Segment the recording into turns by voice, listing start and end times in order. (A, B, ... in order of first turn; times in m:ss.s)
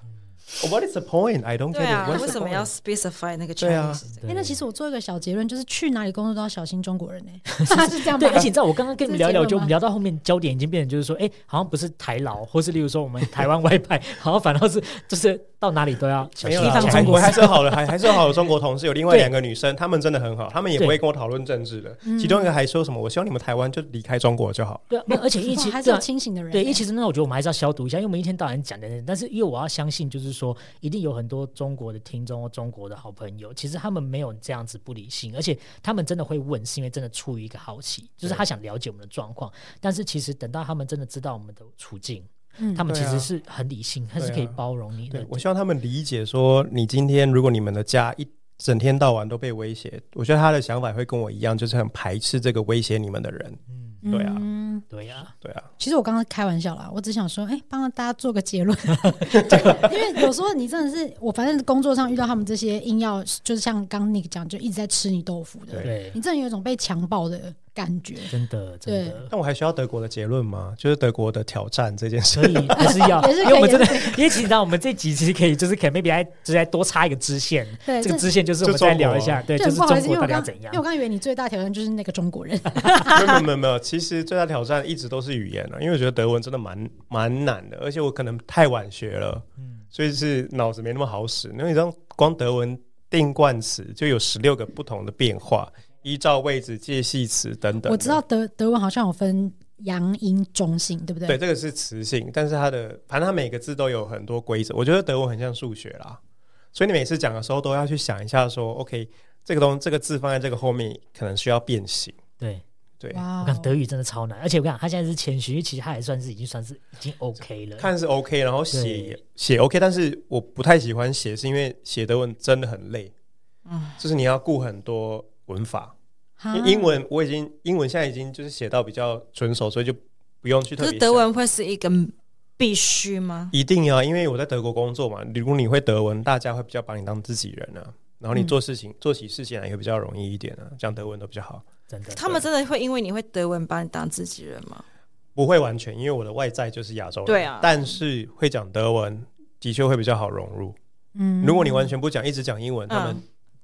0:00.5-0:02.7 A
0:01.7-0:04.2 B
0:03.6-0:04.0 A
0:04.1-0:04.6 C
0:04.3-0:09.7 D
0:07.6-0:18.2 C
0:16.4-0:24.9 A
0:16.6-0:17.5 B
0:22.0-0:22.5 D
0:24.9-0:45.4 C
0:25.3-0:26.8 D
0:42.6-0:42.9 D
0:42.9-0:43.3 A
0:44.2-0:44.6 A
0:45.1-0:54.4 A
0:53.7-0:54.1 C
0:54.0-0:54.8 D
0:54.9-0:55.3 C
0:55.4-0:55.7 A
0:55.8-1:08.3 D
0:59.5-0:59.9 A
1:05.8-1:06.2 C
1:08.3-1:09.3 C
1:08.8-1:09.2 D
1:09.3-1:13.1 A
1:12.3-1:20.8 C
1:12.9-1:14.3 D
1:17.8-1:18.3 D
1:18.6-1:19.5 A
1:19.6-1:23.1 D
1:23.0-1:38.2 A
1:29.6-1:29.8 C
1:37.8-1:41.4 D
1:41.3-1:46.2 A
1:46.7-1:52.2 A
1:53.1-1:53.7 D
1:53.4-1:57.9 C
1:57.8-2:03.1 A
1:58.7-1:59.2 C
2:03.6-2:04.0 B
2:04.0-2:05.9 A
2:06.4-2:06.9 D
2:06.5-2:11.3 A
2:10.8-2:13.5 B
2:13.5-2:21.6 A
2:21.9-2:22.2 C
2:22.1-2:24.8 B
2:25.3-2:30.8 A
2:27.2-2:28.0 B
2:31.1-2:31.9 D
2:31.4-2:33.2 A
2:32.9-2:33.2 B